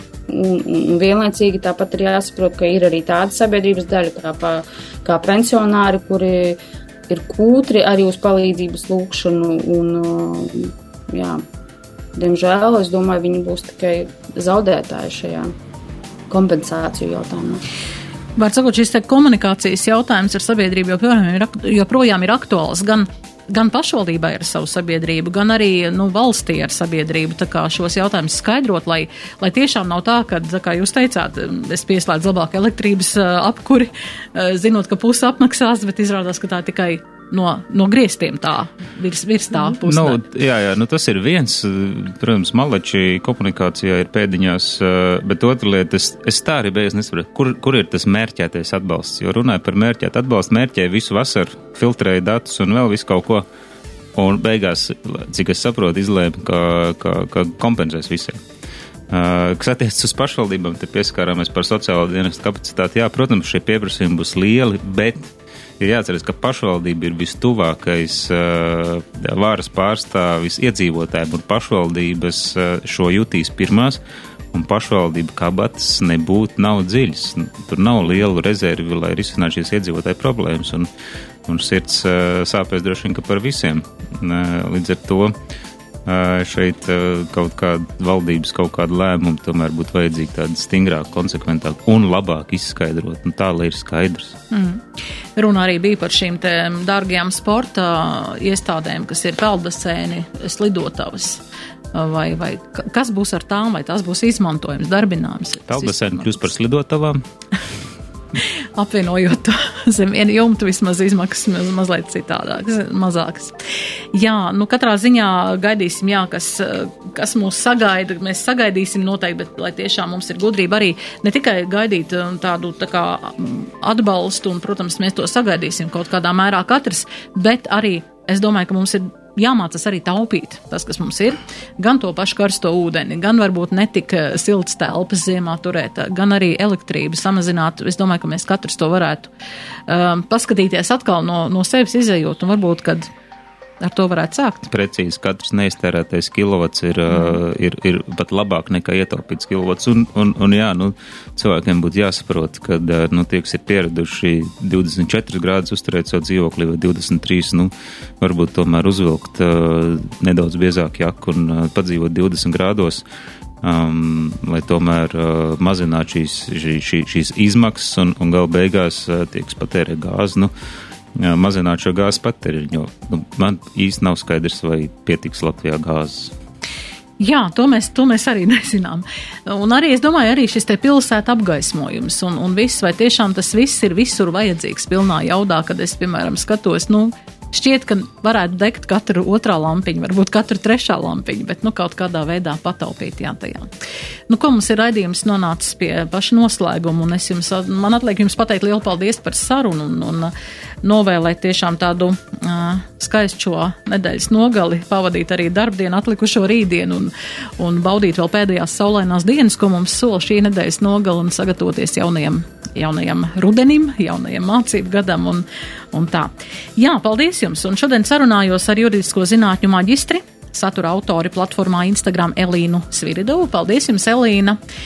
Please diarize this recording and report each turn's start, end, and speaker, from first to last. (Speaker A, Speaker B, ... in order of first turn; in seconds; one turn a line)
Speaker A: 0.3-11.4
Speaker A: 12.2-15.5
Speaker A: 16.3-17.6
Speaker B: 18.4-40.2
Speaker C: 39.7-53.5
Speaker C: 54.2-58.4
Speaker C: 59.1-74.0
Speaker C: 74.5-80.9
Speaker C: 81.5-85.3
Speaker C: 86.1-94.4
Speaker B: 94.5-94.8
Speaker B: 95.4-101.4
Speaker B: 101.9-106.5
Speaker C: 105.7-107.2
Speaker B: 108.8-113.6
Speaker B: 114.1-139.3
Speaker B: 139.9-143.1
Speaker B: 143.8-144.7
Speaker C: 144.7-163.0
Speaker B: 147.1-147.4
Speaker C: 163.6-170.5
Speaker C: 171.2-176.3
Speaker B: 177.2-193.7
Speaker B: 194.3-224.6